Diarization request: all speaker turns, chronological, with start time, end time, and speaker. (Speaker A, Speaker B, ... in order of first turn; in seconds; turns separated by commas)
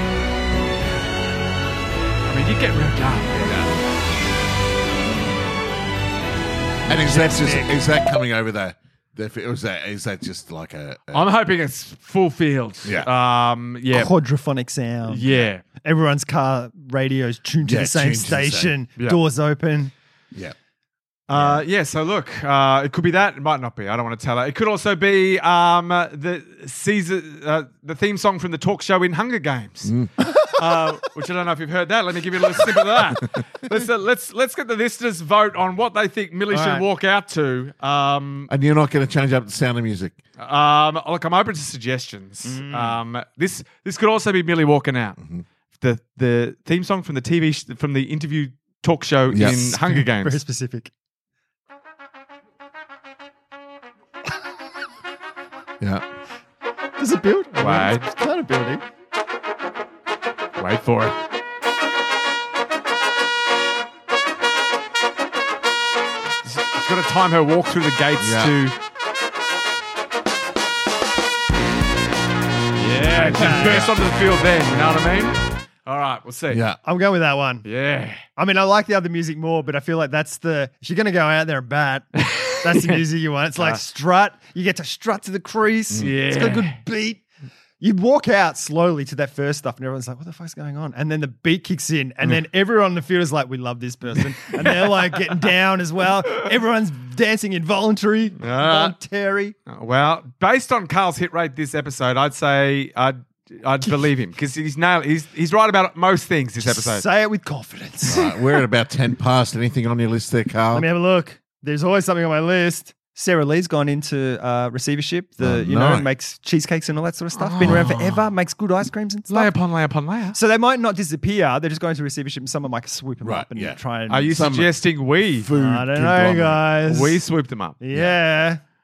Speaker A: 2.2-3.5, Speaker B: 3.4-3.7, Speaker B: 6.9-11.2, Speaker C: 6.9-7.7, Speaker A: 11.1-14.1, Speaker C: 13.9-19.9, Speaker A: 15.0-15.6, Speaker B: 17.6-18.7, Speaker A: 21.3-38.5, Speaker C: 21.3-21.6, Speaker B: 29.8-30.1, Speaker C: 36.5-36.8, Speaker B: 38.5-40.2, Speaker A: 40.4-45.2, Speaker C: 42.4-43.0, Speaker B: 45.2-45.4, Speaker A: 45.8-50.4, Speaker B: 49.3-49.6, Speaker C: 49.4-50.9, Speaker C: 57.0-58.8, Speaker A: 57.6-58.1, Speaker A: 60.5-61.1, Speaker A: 66.4-68.7, Speaker B: 68.2-68.5, Speaker A: 72.8-76.6, Speaker C: 73.1-73.9, Speaker B: 76.5-76.8, Speaker C: 76.8-77.7, Speaker A: 77.6-78.2, Speaker C: 78.3-87.2, Speaker A: 82.2-83.0, Speaker A: 85.9-86.8, Speaker C: 87.8-99.5, Speaker A: 94.4-95.2, Speaker A: 98.4-98.9, Speaker A: 99.7-107.0, Speaker C: 106.6-108.6, Speaker B: 108.0-110.8, Speaker C: 110.7-119.5, Speaker B: 115.4-116.1, Speaker A: 117.3-118.3, Speaker B: 117.6-117.9, Speaker A: 119.3-120.4, Speaker C: 120.3-124.5, Speaker B: 123.2-123.8, Speaker A: 124.1-125.5, Speaker B: 124.3-124.7, Speaker B: 125.3-126.6, Speaker C: 125.5-127.2, Speaker A: 126.8-127.8, Speaker C: 127.8-128.6